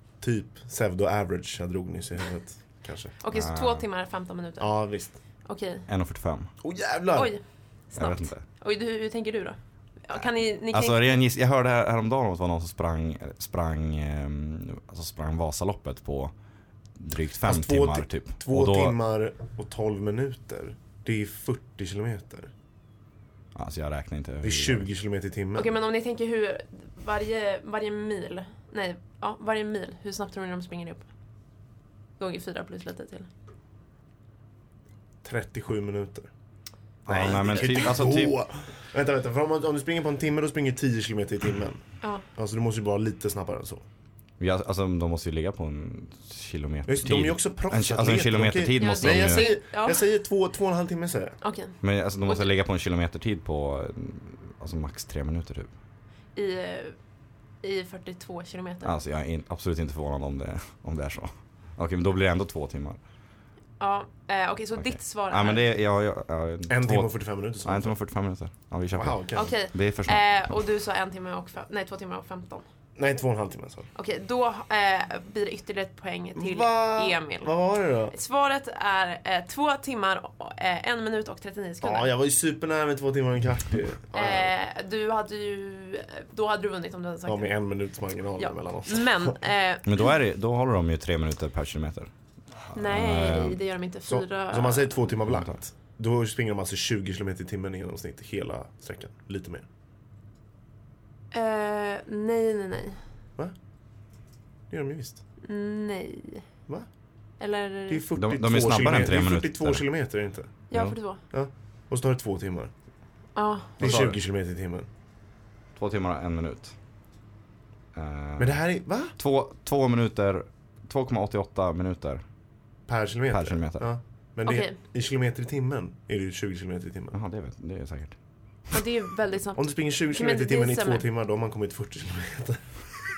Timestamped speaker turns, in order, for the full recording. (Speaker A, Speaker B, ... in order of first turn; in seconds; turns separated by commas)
Speaker A: 0.2-3.1, Speaker B: 3.2-4.8, Speaker C: 3.3-3.8, Speaker A: 4.6-5.2, Speaker B: 5.4-5.9, Speaker C: 5.9-6.5, Speaker A: 6.6-7.3, Speaker B: 7.1-11.1, Speaker C: 8.0-8.4, Speaker C: 10.7-16.3, Speaker C: 17.0-19.0, Speaker A: 17.4-22.5, Speaker C: 23.6-24.9, Speaker A: 24.4-25.7, Speaker B: 25.6-31.1, Speaker B: 32.2-33.3, Speaker A: 35.2-36.3, Speaker C: 37.1-38.4, Speaker A: 37.1-43.8, Speaker C: 44.4-49.5, Speaker A: 46.9-51.4, Speaker B: 48.8-50.1, Speaker B: 51.4-52.5, Speaker C: 51.8-55.7, Speaker B: 56.4-57.0, Speaker B: 57.6-59.0, Speaker C: 58.8-63.0, Speaker B: 63.8-65.7, Speaker C: 64.8-70.3, Speaker A: 66.7-68.0, Speaker A: 68.9-69.5, Speaker B: 69.3-72.7, Speaker A: 73.0-73.9, Speaker B: 74.0-77.5, Speaker A: 76.4-78.1, Speaker B: 78.1-82.1, Speaker A: 81.8-84.5, Speaker B: 84.1-87.5, Speaker A: 87.3-89.3, Speaker B: 88.4-90.1, Speaker C: 89.8-92.1, Speaker C: 92.7-93.6, Speaker B: 92.7-95.1, Speaker A: 94.1-99.7, Speaker C: 95.3-95.5, Speaker B: 101.3-103.0, Speaker A: 104.7-105.2, Speaker B: 105.4-106.5, Speaker B: 107.4-108.0, Speaker A: 107.9-110.6, Speaker C: 108.1-109.8, Speaker B: 110.7-111.2, Speaker A: 111.2-112.7, Speaker B: 113.3-113.8, Speaker A: 113.8-114.9, Speaker C: 113.8-114.2, Speaker C: 115.8-116.7, Speaker C: 117.9-118.6, Speaker A: 118.4-119.2, Speaker C: 119.2-122.2, Speaker A: 122.9-127.2, Speaker C: 123.3-123.9, Speaker B: 124.5-124.8, Speaker C: 127.1-128.2, Speaker B: 128.7-131.1, Speaker A: 129.6-132.8